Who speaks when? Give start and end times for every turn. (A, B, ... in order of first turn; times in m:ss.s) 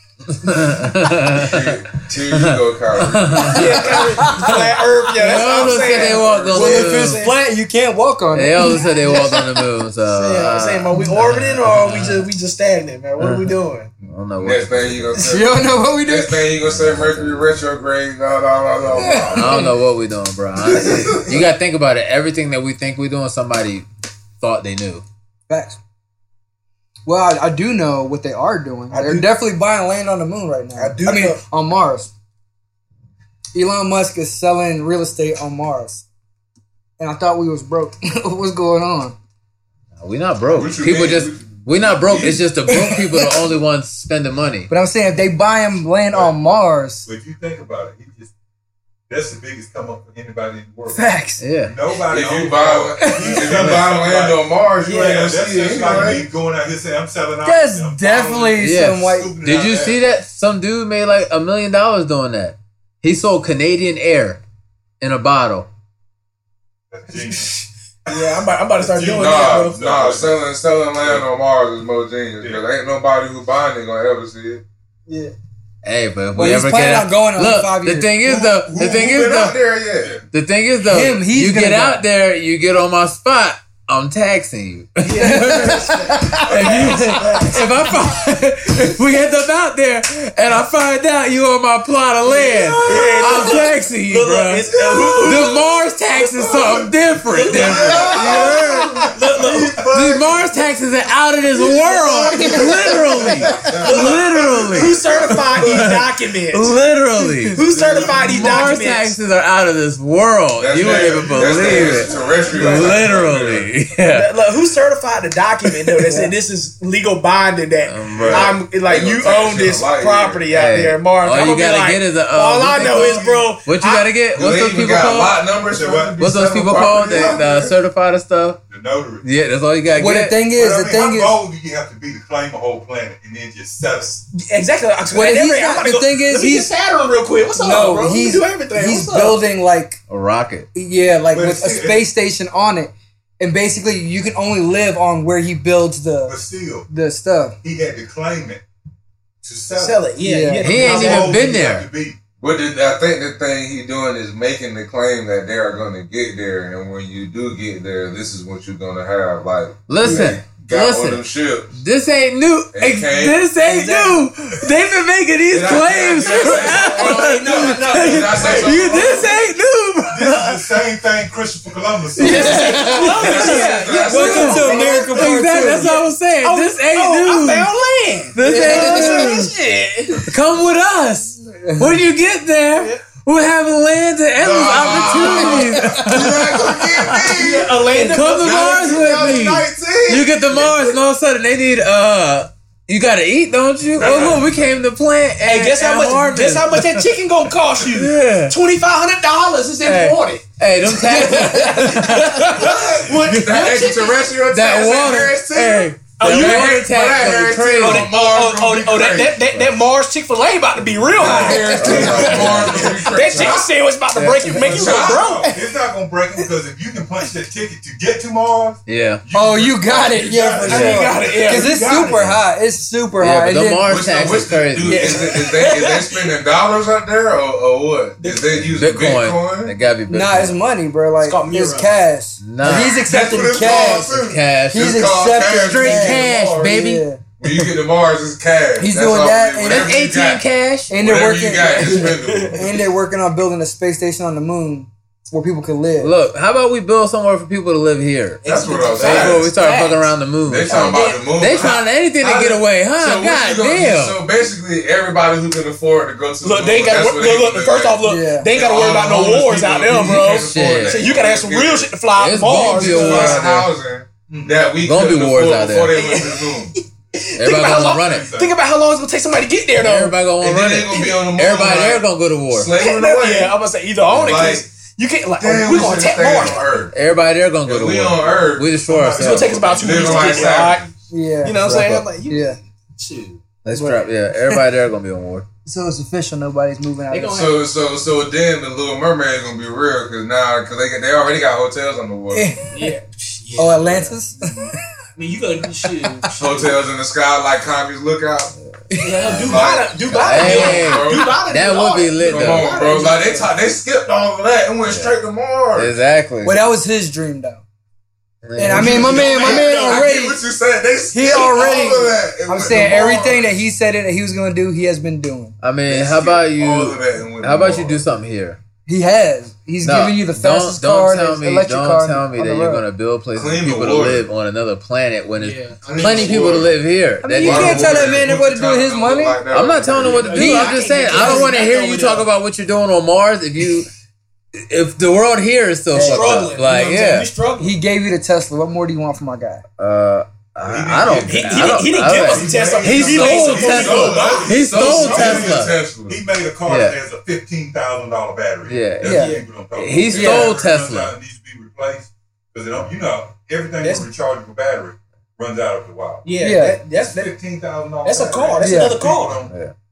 0:00.3-0:04.5 A
0:01.3-0:04.2 B
0:03.5-0:07.4 C
0:03.8-0:04.6 D
0:05.2-0:07.3 A
0:05.3-0:09.5 D
0:05.7-0:06.4 B
0:08.3-0:12.3 A
0:10.1-0:13.9 C
0:13.2-0:15.3 A
0:14.4-0:19.7 B
0:15.2-0:16.4 D
0:16.6-0:17.6 A
0:18.9-0:19.8 D
0:19.3-0:23.8 A
0:20.6-0:21.4 B
0:24.4-0:25.0 A
0:25.5-0:25.8 D
0:27.0-0:32.1 D
0:28.9-0:29.3 C
0:30.8-0:31.4 C
0:33.5-0:36.0 D
0:37.0-0:39.2 D
0:39.9-0:44.7 A
0:40.4-0:42.4 B
0:42.7-0:43.5 D
0:44.7-0:47.0 D
0:47.0-0:48.3 E
0:49.1-0:51.0 E
0:50.9-0:51.4 D
0:51.4-0:51.7 A
0:51.6-1:00.0 E
0:52.1-0:56.2 B
0:53.0-0:53.5 D
0:57.4-0:59.3 D
0:58.6-1:04.4 A
1:05.0-1:05.7 A
1:06.9-1:10.5 E
1:07.1-1:09.8 C
1:09.1-1:14.6 B
1:15.1-1:15.3 C
1:15.8-1:19.6 A
1:16.3-1:18.1 D
1:18.2-1:19.2 E
1:18.8-1:20.2 B
1:20.3-1:34.7 A
1:20.9-1:22.0 D
1:25.0-1:27.7 C
1:25.2-1:26.6 D
1:26.6-1:27.1 E
1:32.3-1:39.8 C
1:32.9-1:33.6 E
1:34.7-1:35.6 E
1:35.2-1:39.1 A
1:36.5-1:36.8 E
1:37.4-1:40.5 E
1:39.9-1:54.3 A
1:41.5-1:45.9 E
1:42.4-1:42.7 D
1:43.8-1:46.7 C
1:47.5-1:49.2 C
1:47.6-1:48.3 E
1:50.6-1:53.7 B
1:50.8-1:53.2 E
1:52.5-1:53.1 C
1:54.1-2:04.1 C
1:56.0-1:56.2 A
1:57.8-1:58.5 A
1:58.2-1:58.5 E
1:58.2-2:00.7 B
2:00.5-2:05.4 A
2:02.7-2:03.5 E
2:04.3-2:07.7 B
2:05.6-2:07.4 E
2:06.2-2:08.6 A
2:08.7-2:09.2 E
2:09.2-2:10.4 A
2:09.9-2:11.4 D
2:10.5-2:14.2 E
2:14.3-2:19.4 C
2:15.1-2:16.7 D
2:17.6-2:20.0 D
2:20.1-2:20.7 A
2:20.7-2:26.3 D
2:21.3-2:22.1 E
2:26.2-2:26.9 E
2:26.9-2:27.6 D
2:27.6-2:28.6 E
2:29.4-2:30.1 E
2:29.8-2:31.5 C
2:30.2-2:30.6 D
2:30.6-2:32.2 E
2:30.6-2:31.8 A
2:32.4-2:41.8 B
2:39.9-2:41.2 A
2:40.0-2:40.4 D
2:41.7-2:50.8 A
2:42.7-2:43.4 B
2:43.6-2:44.2 C
2:45.5-2:49.2 B
2:46.2-2:49.2 C
2:48.3-2:49.1 E
2:50.1-2:52.8 E
2:52.2-2:55.9 D
2:52.2-2:57.7 A
2:52.2-3:00.3 C
2:53.0-2:55.4 B
2:58.3-2:59.5 A
2:58.4-2:59.4 D
3:00.2-3:07.4 A
3:01.5-3:01.9 D
3:02.8-3:03.0 C
3:04.4-3:10.6 B
3:05.0-3:05.6 D
3:07.2-3:09.3 C
3:07.4-3:07.8 E
3:07.9-3:08.2 D
3:08.0-3:17.2 A
3:08.7-3:09.2 E
3:14.0-3:14.5 B
3:14.0-3:14.3 C
3:15.4-3:24.2 C
3:17.8-3:18.5 A
3:19.8-3:23.7 A
3:21.3-3:21.8 D
3:22.6-3:29.4 B
3:24.5-3:28.1 A
3:26.2-3:35.6 C
3:29.5-3:29.8 A
3:31.2-3:33.6 E
3:31.2-3:33.7 B
3:31.2-3:32.9 A
3:34.1-3:34.7 A
3:34.5-3:42.2 E
3:34.6-3:35.4 B
3:38.8-3:39.2 A
3:39.3-3:43.9 D
3:40.6-3:42.1 C
3:40.7-3:41.0 A
3:43.2-3:45.3 A
3:43.8-3:49.7 B
3:44.8-3:45.3 D
3:45.4-3:46.3 C
3:48.2-3:48.6 C
3:48.7-3:50.6 A
3:50.1-3:54.1 D
3:51.2-3:51.9 C
3:52.4-3:53.1 A
3:52.7-3:56.8 B
3:53.2-3:54.1 E
3:53.6-3:55.1 A
3:54.7-3:57.2 D
3:55.6-3:57.0 A
3:57.4-4:02.7 B
3:58.8-3:59.9 D
3:59.6-4:00.9 A
4:00.9-4:06.1 D
4:01.8-4:02.7 C
4:06.0-4:08.4 A
4:08.4-4:10.1 C
4:08.4-4:09.5 B
4:08.9-4:14.2 A
4:10.4-4:18.0 B
4:10.7-4:11.0 D
4:16.4-4:23.4 C
4:18.0-4:18.5 D
4:18.5-4:21.9 B
4:20.1-4:21.1 A
4:22.1-4:23.7 A
4:22.5-4:26.8 B
4:24.3-4:24.6 E
4:24.8-4:26.0 A
4:25.9-4:30.1 C
4:27.4-4:28.2 A
4:28.0-4:28.5 E
4:29.8-4:32.7 A
4:30.4-4:34.6 B
4:32.8-4:36.8 C
4:35.4-4:36.9 B
4:36.9-4:39.6 A
4:37.6-4:38.7 B
4:38.7-4:40.8 E
4:39.2-4:40.8 C
4:39.6-4:41.0 B
4:41.1-4:41.6 D
4:41.4-4:43.4 C
4:41.6-4:42.0 A
4:42.3-4:42.6 D
4:43.6-4:45.5 A
4:43.7-4:44.6 D
4:45.6-4:47.4 D
4:47.1-4:47.6 C
4:47.3-4:52.6 B
4:52.3-4:52.9 D
4:52.7-4:56.3 C
4:53.6-4:54.8 D
4:55.8-4:56.3 D
4:56.3-4:58.5 B
4:58.6-5:02.8 A
4:58.9-4:59.3 D
4:59.0-5:03.5 C
4:59.3-5:01.4 B
5:02.1-5:06.0 B
5:04.8-5:05.2 A
5:05.7-5:06.6 A
5:06.4-5:07.6 D
5:08.4-5:09.2 A
5:08.6-5:10.4 D
5:08.7-5:13.4 B
5:08.8-5:10.1 C
5:09.0-5:09.5 E
5:11.1-5:15.6 D
5:12.5-5:13.4 E
5:15.6-5:18.6 A
5:15.9-5:18.0 B
5:18.8-5:22.8 D
5:19.8-5:28.3 A
5:23.3-5:24.3 B
5:25.4-5:26.5 C
5:25.9-5:26.7 B
5:27.2-5:29.4 D
5:27.4-5:30.5 B
5:29.5-5:33.9 A
5:30.0-5:32.3 C
5:30.4-5:31.5 D
5:34.5-5:37.3 A
5:35.9-5:37.8 C
5:36.0-5:36.4 D
5:37.6-5:39.6 D
5:39.8-5:45.8 A
5:40.6-5:56.3 E
5:41.1-5:45.3 C
5:44.7-5:46.2 B
5:46.7-5:47.0 A
5:48.7-5:51.1 A
5:49.0-5:49.3 D
5:49.2-5:49.4 C
5:50.1-5:50.6 D
5:53.8-5:54.1 C
5:56.2-5:57.3 C
5:56.4-5:56.8 D
5:56.9-5:59.5 E
5:58.0-5:59.5 C
5:58.6-5:59.1 D
5:59.5-5:59.7 A